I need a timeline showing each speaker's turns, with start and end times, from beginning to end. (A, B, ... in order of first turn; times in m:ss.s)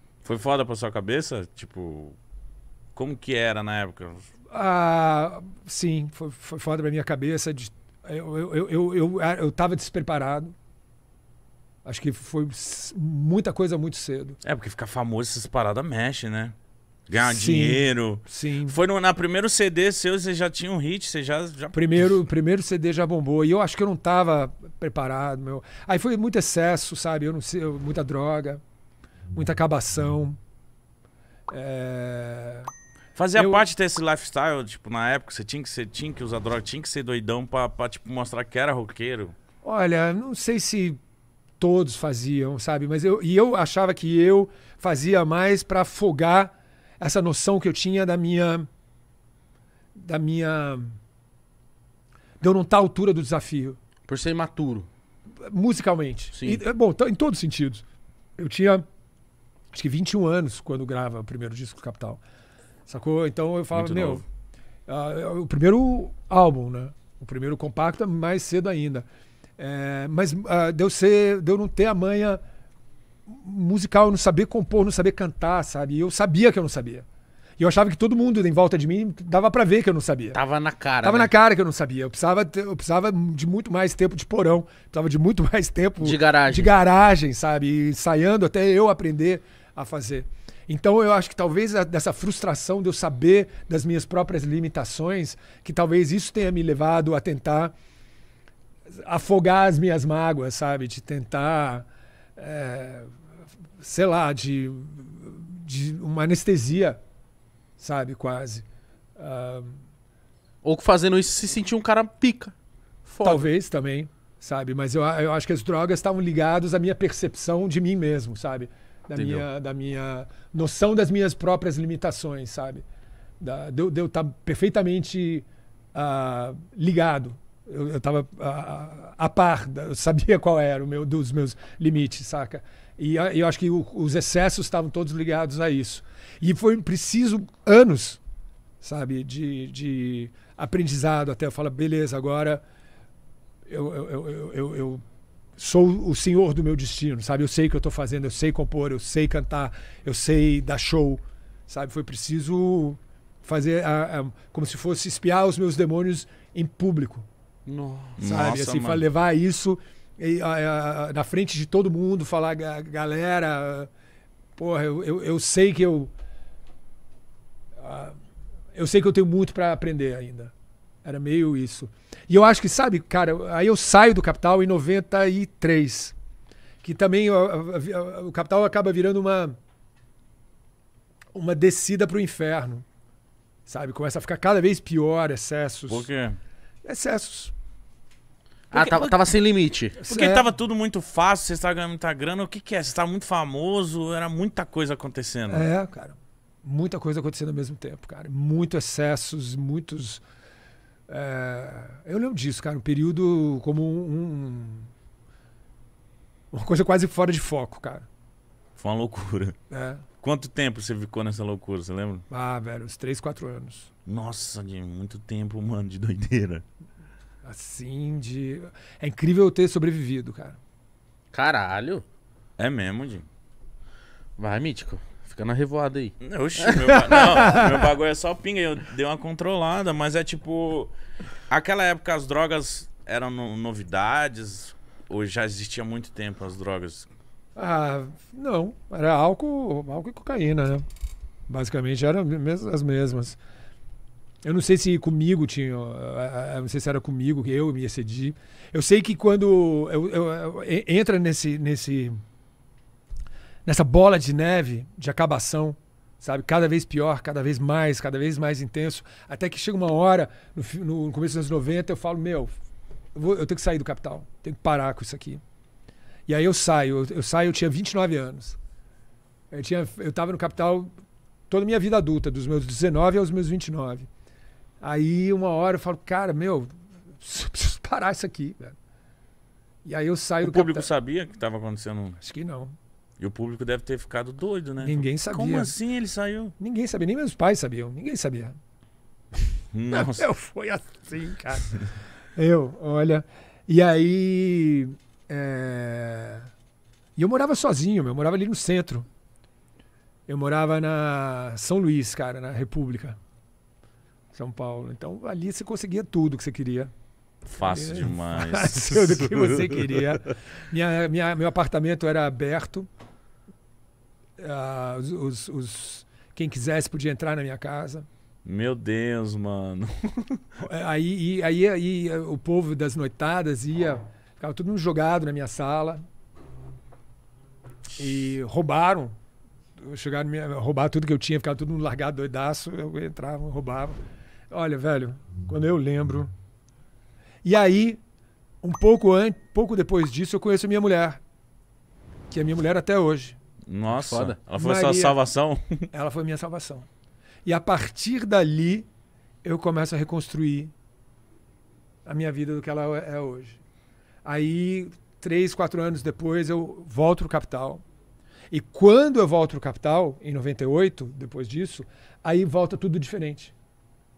0:00.2-0:02.2 A
0:03.0-0:04.3 A
0:04.5-0:10.5 B
0:11.8-0:14.4 B
0:14.4-0:16.5 A
0:17.1-0:22.2 A
0:17.2-0:18.8 B
0:21.7-0:28.6 B
0:29.3-0:30.4 B
0:31.5-0:32.7 B
0:33.2-0:39.4 A
0:33.3-0:33.7 B
0:39.6-0:41.0 B
0:41.6-0:48.7 B
0:50.0-0:51.0 B
0:52.4-0:53.8 B
0:54.1-0:54.9 C
0:55.4-0:57.8 B
0:56.3-0:56.6 C
0:58.4-0:58.8 B
0:59.7-1:02.2 B
1:02.9-1:04.2 B
1:03.7-1:04.2 A
1:04.9-1:09.1 B
1:09.6-1:12.4 B
1:13.3-1:17.0 B
1:17.6-1:20.4 B
1:20.3-1:21.3 C
1:21.0-1:37.7 B
1:26.0-1:26.7 C
1:38.9-1:43.1 B
1:43.8-1:47.0 B
1:47.8-1:48.6 B
1:49.2-1:49.8 B
1:50.6-1:52.5 C
1:53.1-1:53.4 C
1:53.2-2:02.8 B
1:59.2-1:59.5 C
2:03.4-2:18.2 B
2:18.8-2:22.6 B
2:23.7-2:25.0 B
2:25.6-2:37.3 B
2:37.7-2:38.0 C
2:38.2-2:39.1 A
2:38.2-2:43.9 B
2:44.6-2:46.1 B
2:47.8-2:48.2 B
2:48.7-2:50.5 B
2:51.0-2:56.1 B
2:56.8-2:59.6 B
3:01.3-3:02.8 B
3:03.7-3:06.1 B
3:05.9-3:06.4 A
3:06.8-3:07.5 B
3:08.7-3:09.4 A
3:08.7-3:10.0 C
3:10.0-3:15.7 A
3:10.0-3:10.5 B
3:15.5-3:20.2 B
3:21.1-3:24.9 B
3:26.5-3:28.1 B
3:28.8-3:29.6 A
3:29.7-3:30.1 B
3:30.2-3:32.2 A
3:32.3-3:33.9 B
3:34.1-3:36.6 A
3:37.4-3:40.6 B
3:41.3-3:42.0 C
3:42.6-3:43.3 A
3:44.4-3:46.2 C
3:46.2-3:50.9 A
3:46.9-3:47.9 B
3:51.5-3:57.1 A
3:57.6-4:00.8 B
4:01.5-4:03.4 B
4:04.4-4:12.2 B
4:13.7-4:22.5 B
4:23.2-4:25.4 B
4:26.3-4:28.6 B
4:29.5-4:30.9 B
4:31.5-4:34.1 B
4:34.8-4:38.8 B
4:39.8-4:40.9 B
4:40.4-4:42.2 A
4:42.2-4:42.8 B
4:43.2-4:46.5 A
4:44.8-4:45.7 B
4:46.6-4:48.6 B
4:49.7-4:50.3 A
4:49.9-4:56.5 B
4:57.2-4:59.1 B
5:00.3-5:03.2 B
5:04.3-5:06.9 B
5:07.5-5:10.2 A
5:07.6-5:12.9 B
5:14.4-5:18.1 B
5:18.4-5:20.4 A
5:20.6-5:26.0 B
5:28.0-5:29.1 B
5:29.8-5:34.0 B
5:34.5-5:36.3 B
5:37.4-5:38.0 B
5:38.6-5:41.2 B
5:42.3-5:43.4 B
5:43.7-5:45.9 A
5:44.0-5:44.4 C
5:44.6-5:45.2 B
5:45.9-5:46.9 B
5:47.4-5:48.9 B
5:49.4-5:50.7 B
5:52.0-5:53.6 B
5:54.2-5:57.8 B
5:58.5-6:03.5 B